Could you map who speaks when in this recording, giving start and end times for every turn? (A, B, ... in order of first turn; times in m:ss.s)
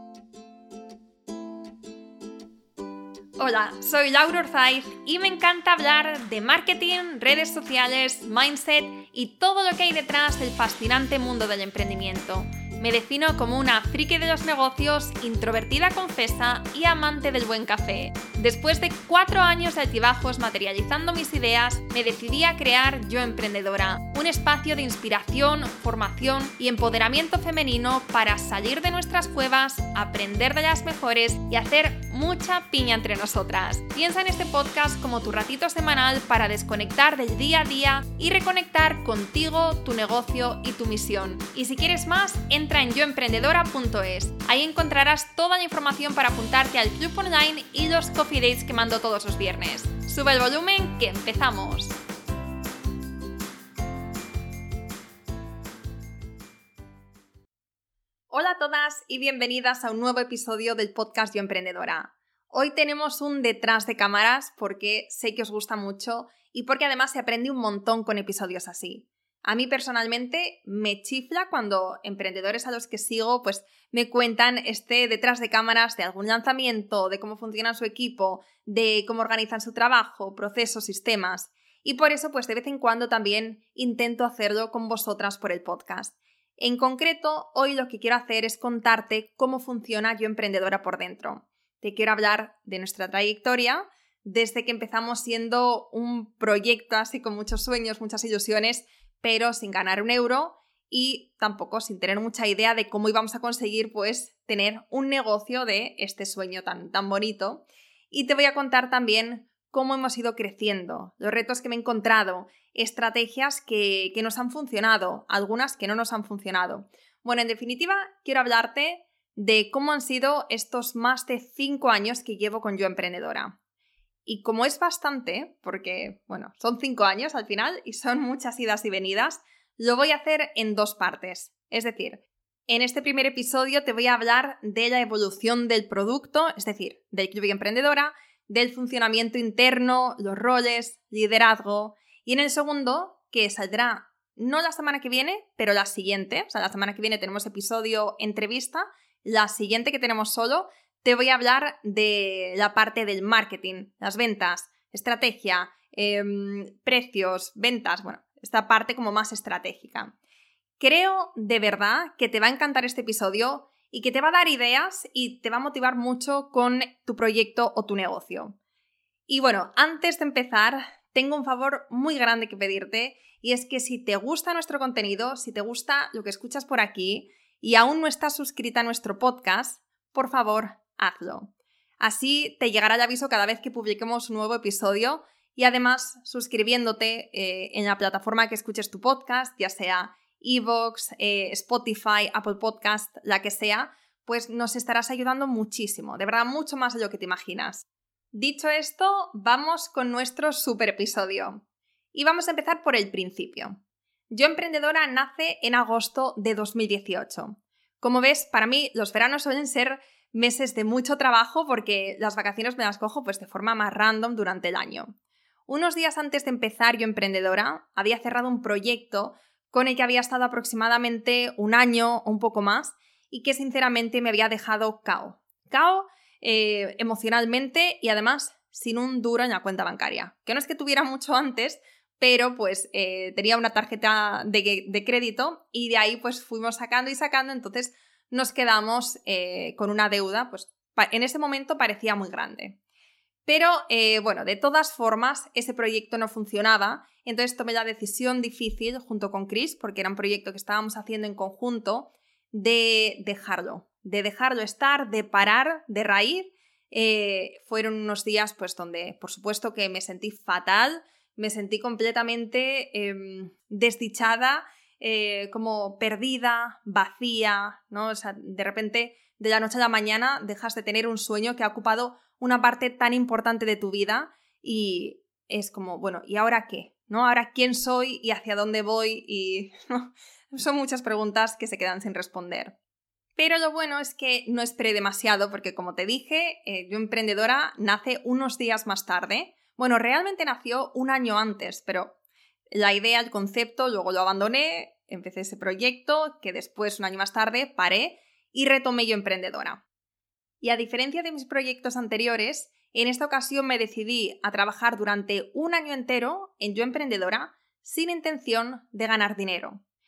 0:03.4-0:52.0 A
0:58.3-2:03.6 A
2:04.3-2:40.1 A
2:40.8-2:48.6 A
2:49.3-3:21.6 A
3:22.1-3:23.8 A
3:24.3-3:35.2 A
3:35.7-4:02.8 A
4:03.5-4:42.8 A
4:43.4-4:52.2 A
4:52.7-4:59.8 A
5:00.6-5:09.8 A